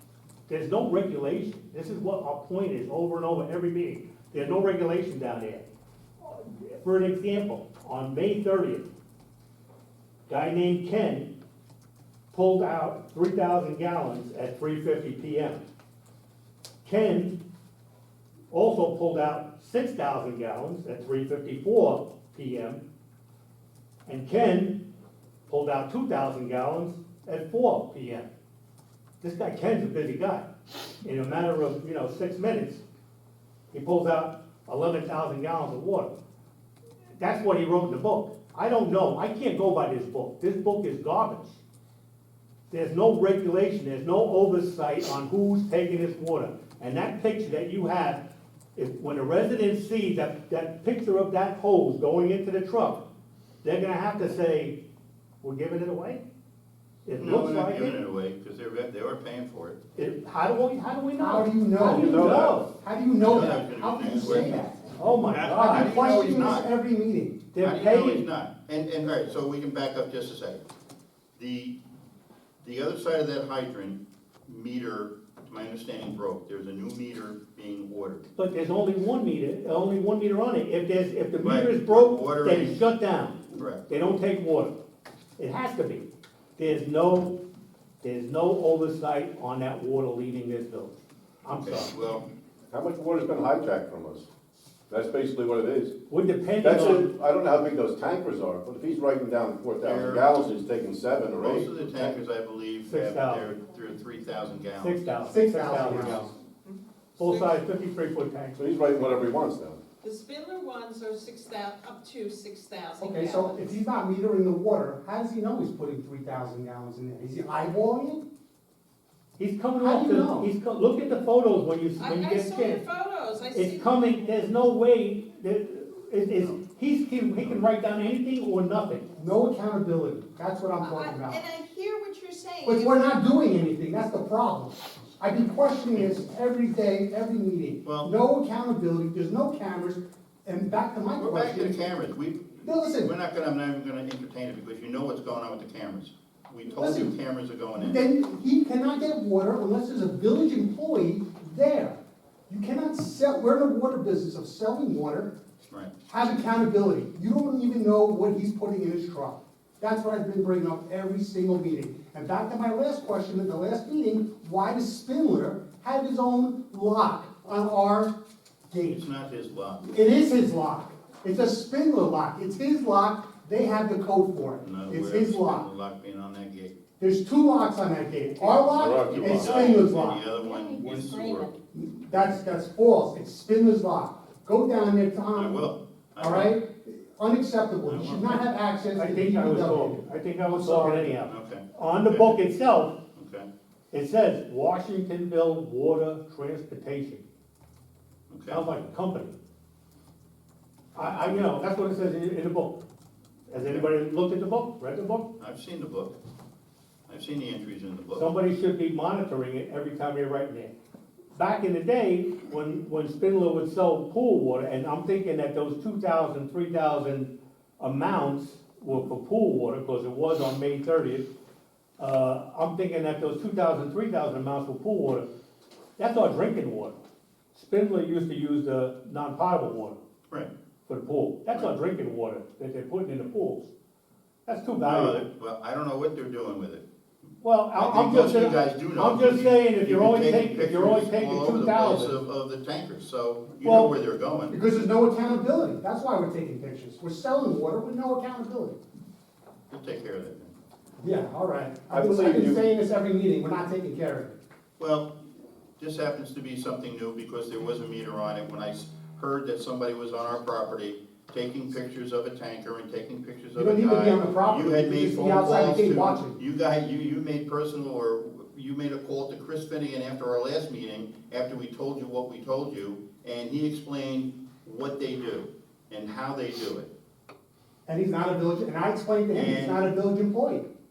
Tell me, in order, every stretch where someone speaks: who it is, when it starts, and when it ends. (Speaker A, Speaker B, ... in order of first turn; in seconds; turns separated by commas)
Speaker A: 0.5-5.6, Speaker A: 6.2-8.9, Speaker A: 10.3-11.3, Speaker A: 12.3-15.6, Speaker A: 16.8-17.4, Speaker A: 18.5-22.8, Speaker A: 24.1-24.9, Speaker A: 25.5-28.3, Speaker A: 29.2-30.5, Speaker A: 31.0-32.8, Speaker A: 33.7-36.2, Speaker A: 37.2-41.6, Speaker A: 42.7-48.2, Speaker A: 48.8-53.1, Speaker A: 53.6-54.8, Speaker A: 55.4-56.2, Speaker A: 57.0-58.0, Speaker B: 57.2-59.8, Speaker A: 60.0-62.7, Speaker C: 61.2-64.9, Speaker D: 61.8-62.6, Speaker B: 63.2-66.7, Speaker A: 64.9-66.0, Speaker C: 65.5-67.4, Speaker A: 67.5-68.2, Speaker B: 67.6-70.6, Speaker B: 71.4-71.8, Speaker B: 72.6-78.3, Speaker A: 78.4-84.8, Speaker B: 81.4-82.8, Speaker B: 83.5-83.9, Speaker A: 85.4-87.4, Speaker A: 88.0-91.9, Speaker B: 91.6-92.3, Speaker D: 92.7-94.3, Speaker D: 94.9-95.9, Speaker A: 96.1-97.1, Speaker D: 96.6-102.2, Speaker B: 99.8-100.3, Speaker B: 101.4-105.0, Speaker A: 102.9-103.5, Speaker A: 104.8-106.3, Speaker C: 105.3-106.3, Speaker E: 106.7-107.6, Speaker A: 107.2-108.7, Speaker D: 108.6-109.8, Speaker E: 110.0-113.8, Speaker C: 113.0-118.2, Speaker A: 119.4-122.8, Speaker C: 119.8-120.5, Speaker E: 122.0-124.2, Speaker A: 123.5-129.1, Speaker C: 129.2-131.4, Speaker E: 130.8-133.0, Speaker C: 132.6-141.8, Speaker B: 137.8-138.1, Speaker B: 141.2-148.1, Speaker C: 142.6-143.1, Speaker C: 146.7-147.1, Speaker C: 147.7-155.3, Speaker C: 156.1-168.2, Speaker C: 168.7-169.1, Speaker B: 168.9-169.8, Speaker C: 169.8-175.7, Speaker B: 174.6-176.8, Speaker C: 177.0-180.2, Speaker D: 178.5-179.8, Speaker B: 178.7-181.5, Speaker E: 180.3-181.5, Speaker C: 181.7-185.7, Speaker B: 185.3-186.6, Speaker C: 186.2-191.1, Speaker B: 187.9-188.5, Speaker A: 188.9-193.0, Speaker B: 191.2-192.4, Speaker B: 193.2-193.5, Speaker A: 193.9-197.2, Speaker B: 198.3-198.9, Speaker A: 198.5-199.3, Speaker A: 200.9-202.8, Speaker B: 201.0-201.6, Speaker A: 203.5-205.3, Speaker B: 203.6-203.9, Speaker B: 205.4-206.2, Speaker B: 207.1-208.3, Speaker A: 208.1-210.7, Speaker A: 211.3-221.3, Speaker A: 222.0-225.3, Speaker A: 226.0-227.0, Speaker A: 227.5-230.0, Speaker A: 230.9-233.7, Speaker A: 234.5-235.2, Speaker B: 234.8-236.8, Speaker A: 237.4-242.2, Speaker B: 237.8-244.6, Speaker A: 243.6-243.9, Speaker C: 244.5-248.8, Speaker B: 249.7-250.5, Speaker C: 251.0-254.4, Speaker D: 251.9-252.7, Speaker B: 254.8-255.2, Speaker B: 255.8-276.9, Speaker C: 263.5-266.4, Speaker C: 277.9-280.7, Speaker B: 279.3-279.9